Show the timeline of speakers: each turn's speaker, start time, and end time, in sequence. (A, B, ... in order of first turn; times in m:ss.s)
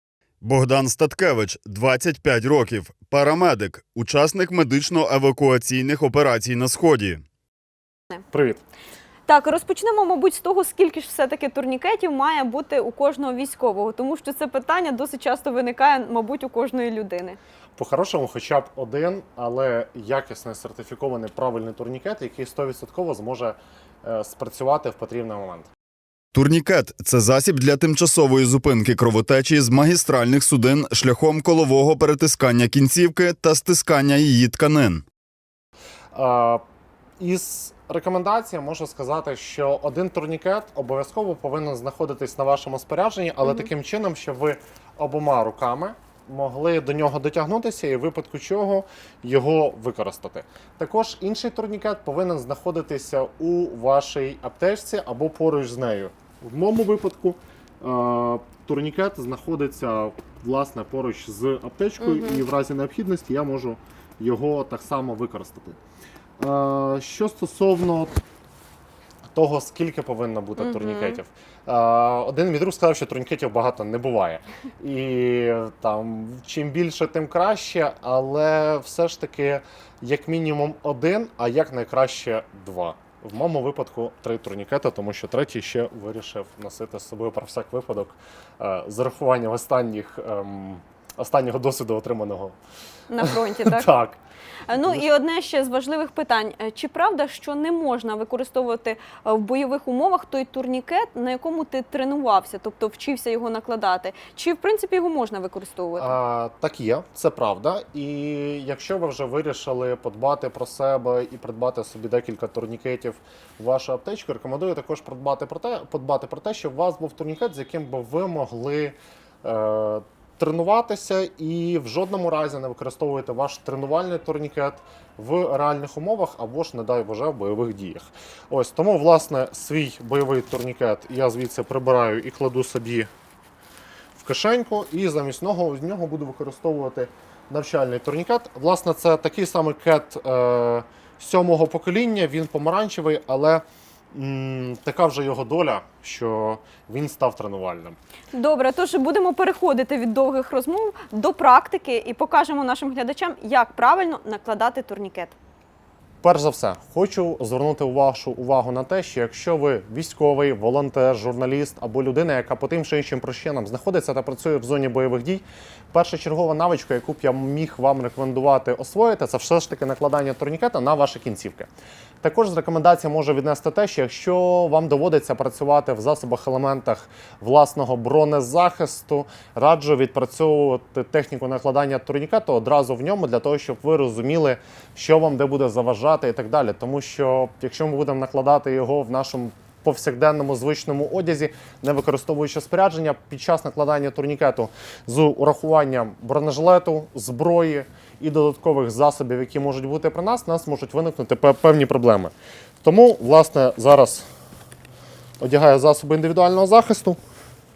0:00.4-0:07.2 A
0:08.3-0:08.6 B
0:09.3-0:17.4 C
0:17.8-0:25.7 B
0:26.3-0:35.0 A
0:36.1-0:36.6 B
0:37.2-1:05.8 B
1:02.0-1:02.4 C
1:06.4-1:08.2 B
1:09.3-1:32.6 B
1:10.6-1:11.2 C
1:33.1-1:33.9 C
1:33.2-1:34.2 B
1:34.7-1:46.2 C
1:46.0-2:13.1 B
2:14.1-2:28.0 B
2:28.3-2:35.3 C
2:36.2-2:51.7 B
2:52.2-3:24.3 B
3:25.4-3:27.2 B